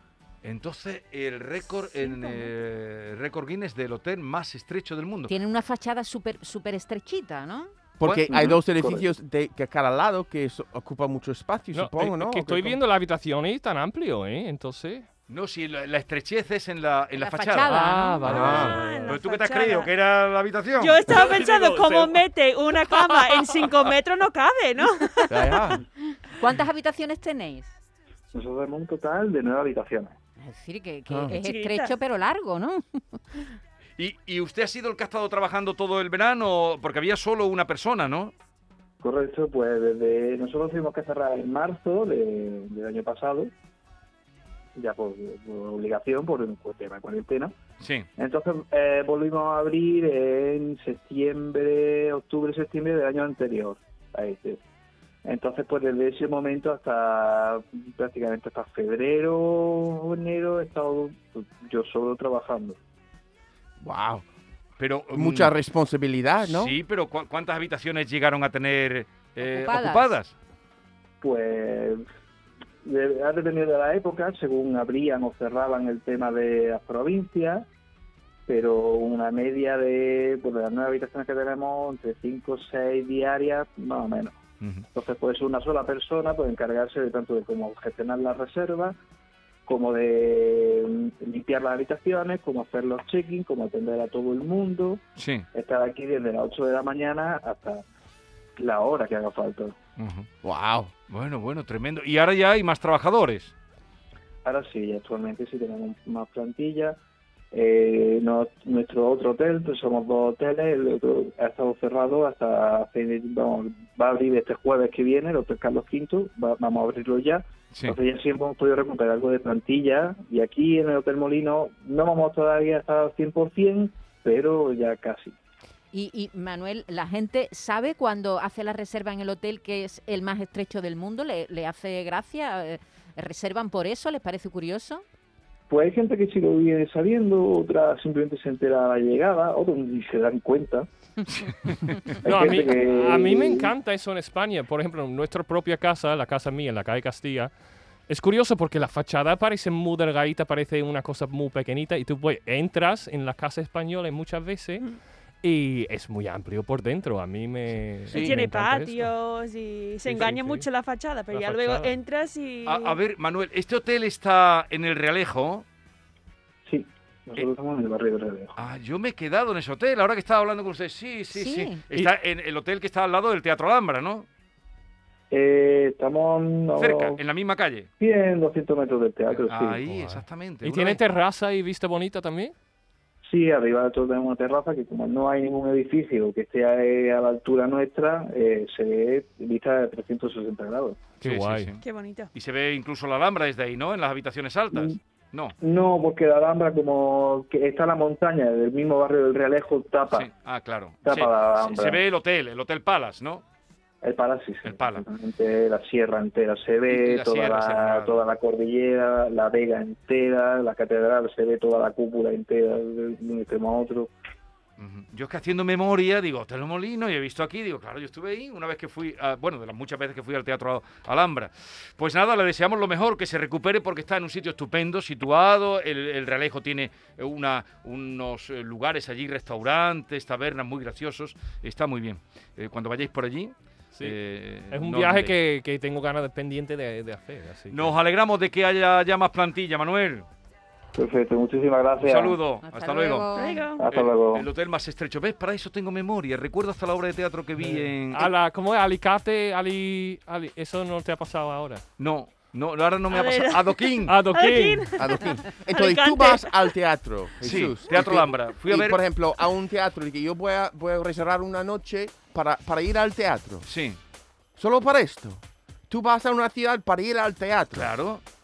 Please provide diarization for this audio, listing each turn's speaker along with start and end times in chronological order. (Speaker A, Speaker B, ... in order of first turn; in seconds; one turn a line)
Speaker A: 0.4-5.3
Speaker B: 5.3-7.7
Speaker C: 8.0-12.8
Speaker A: 8.0-8.6
Speaker D: 8.3-9.1
Speaker E: 11.7-15.1
Speaker A: 15.3-17.8
Speaker B: 17.2-18.5
Speaker E: 17.7-19.2
Speaker C: 18.2-18.8
Speaker F: 18.5-19.9
Speaker A: 19.1-21.2
Speaker F: 20.8-25.6
Speaker E: 21.1-22.1
Speaker C: 25.3-25.8
Speaker B: 26.3-27.7
Speaker D: 28.3-30.1
Speaker B: 30.4-33.2
Speaker C: 31.1-31.4
Speaker F: 31.3-31.9
Speaker A: 34.0-38.3
Speaker D: 39.0-43.5
Speaker D: 44.8-47.5
Speaker A: 47.8-48.1
Speaker D: 48.2-54.6
Speaker D: 55.2-62.8
Speaker C: 63.8-64.2
Speaker A: 64.8-65.5
Speaker C: 65.1-66.7
Speaker A: 66.4-70.3
Speaker B: 69.4-70.1
Speaker D: 71.2-72.0
Speaker D: 72.8-77.7
Speaker D: 78.5-84.4
Speaker D: 84.9-89.0
Speaker D: 89.7-95.0
Speaker A: 95.2-95.5
Speaker D: 95.5-97.8
Speaker D: 98.5-99.8
Speaker A: 100.0-100.3
Speaker C: 100.4-100.9
Speaker A: 101.1-103.5
Speaker D: 104.4-107.0
Speaker D: 107.5-125.3
Speaker B: 125.9-135.0
Speaker D: 135.7-140.9
Speaker A: 141.3-142.1
Speaker D: 142.2-143.7
Speaker E: 142.2-147.5
Speaker E: 148.1-154.9
Speaker E: 155.4-159.1
Speaker F: 158.1-163.0
Speaker E: 160.1-160.7
Speaker E: 161.3-161.9
Speaker A: 162.7-165.6
Speaker D: 166.7-168.5
Speaker A: 168.6-174.2
Speaker B: 171.3-171.8
Speaker D: 175.3-177.2
Speaker A: 176.8-177.9
Speaker D: 178.0-179.8
Speaker A: 179.3-181.0
Speaker E: 179.9-182.5
Speaker D: 183.2-191.0
Speaker E: 191.2-191.7
Speaker A: 191.2-191.8
Speaker F: 191.8-192.3
Speaker A: 192.3-195.6
Speaker D: 195.6-200.3
Speaker A: 200.1-203.4
Speaker D: 201.0-202.0
Speaker D: 204.0-214.1
Speaker A: 204.6-205.1
Speaker A: 206.9-208.2
Speaker A: 214.8-235.3
Speaker E: 234.7-237.9
Speaker A: 237.7-240.2
Speaker D: 240.9-242.4
Speaker A: 242.0-243.3
Speaker B: 242.6-243.7
Speaker F: 243.3-243.8
Speaker D: 243.8-244.5
Speaker A: 243.9-248.3
Speaker E: 247.6-251.8
Speaker A: 252.0-254.2
Speaker F: 253.1-256.7
Speaker E: 254.1-254.8
Speaker C: 255.0-263.6
Speaker A: 257.4-259.0
Speaker A: 263.6-264.0
Speaker C: 264.6-267.9
Speaker A: 267.7-268.2